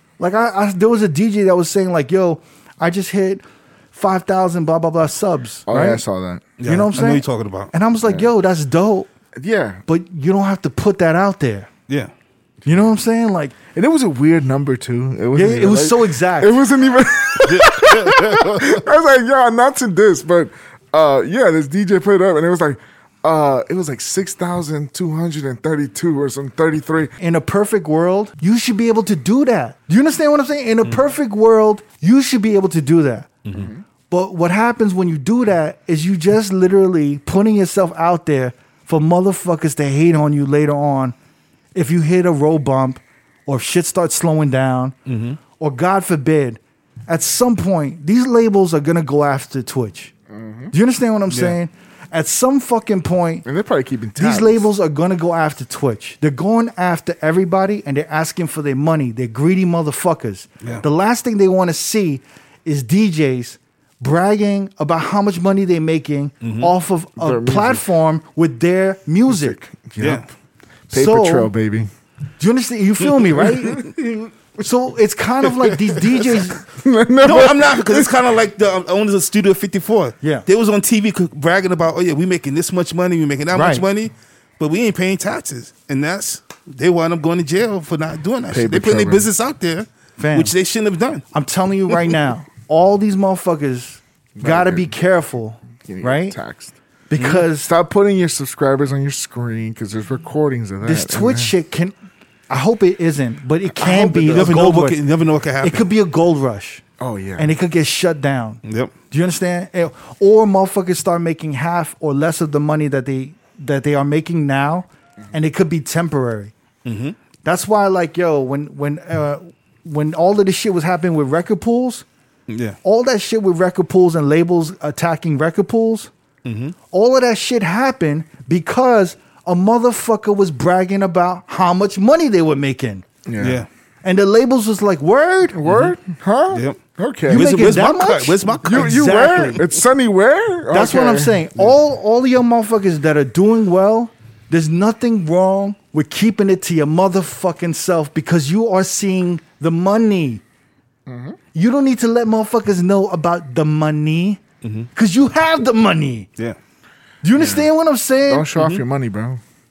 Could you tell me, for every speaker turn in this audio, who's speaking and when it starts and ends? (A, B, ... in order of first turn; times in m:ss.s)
0:00.2-0:06.0 A
0:05.7-0:06.4 B
0:06.6-0:07.7 C
0:06.6-0:09.1 A
0:08.0-0:08.3 B
0:09.3-0:09.8 B
0:09.9-0:11.7 A
0:12.6-0:13.5 A
0:13.7-0:27.1 B
0:15.3-0:16.6 A
0:17.4-0:18.8 C
0:27.2-0:33.3 A
0:33.4-0:33.7 C
0:33.5-0:33.8 B
0:34.1-0:41.1 A
0:41.7-0:45.0 A
0:45.1-0:45.4 C
0:45.6-0:50.1 A
0:50.3-0:50.7 B
0:50.7-0:53.4 A
0:51.3-0:51.6 C
0:53.4-0:54.7 B
0:54.2-1:09.6 A
1:06.4-1:06.7 C
1:07.2-1:07.8 B
1:09.3-1:10.3 B
1:10.0-1:10.2 C
1:10.9-1:11.9 B
1:10.9-1:11.5 A
1:12.4-1:13.8 A
1:14.6-1:16.6 A
1:16.6-1:18.2 B
1:17.2-1:31.2 C
1:20.2-1:20.4 A
1:23.5-1:23.8 A
1:28.5-1:29.3 B
1:30.2-1:30.5 A
1:31.3-1:36.4 A
1:34.4-1:35.0 B
1:35.8-1:36.7 B
1:37.1-1:37.7 A
1:37.2-1:37.4 C
1:37.6-1:41.5 B
1:40.8-1:41.9 A
1:42.5-1:45.0 A
1:43.8-1:44.6 B
1:44.0-1:45.8 C
1:45.6-1:46.8 A
1:47.0-1:47.5 B
1:47.4-1:56.5 A
1:48.6-1:48.9 C
1:56.8-1:57.2 C
1:57.4-2:02.0 A
2:02.5-2:02.8 C
2:02.8-2:06.1 A
2:06.4-2:06.7 C
2:06.9-2:13.1 A
2:13.2-2:13.6 B
2:13.4-2:13.7 C
2:14.0-2:15.6 A
2:15.5-2:17.5 B
2:15.7-2:15.9 C
2:16.5-2:19.4 C
2:17.3-2:19.6 A
2:18.6-2:21.5 B
2:20.7-2:30.4 A
2:31.0-2:31.4 B
2:31.5-2:34.4 A
2:34.6-2:34.9 C
2:34.9-2:36.3 A
2:37.2-2:38.5 A
2:37.3-2:37.7 B
2:38.3-2:39.4 B
2:38.6-2:38.8 C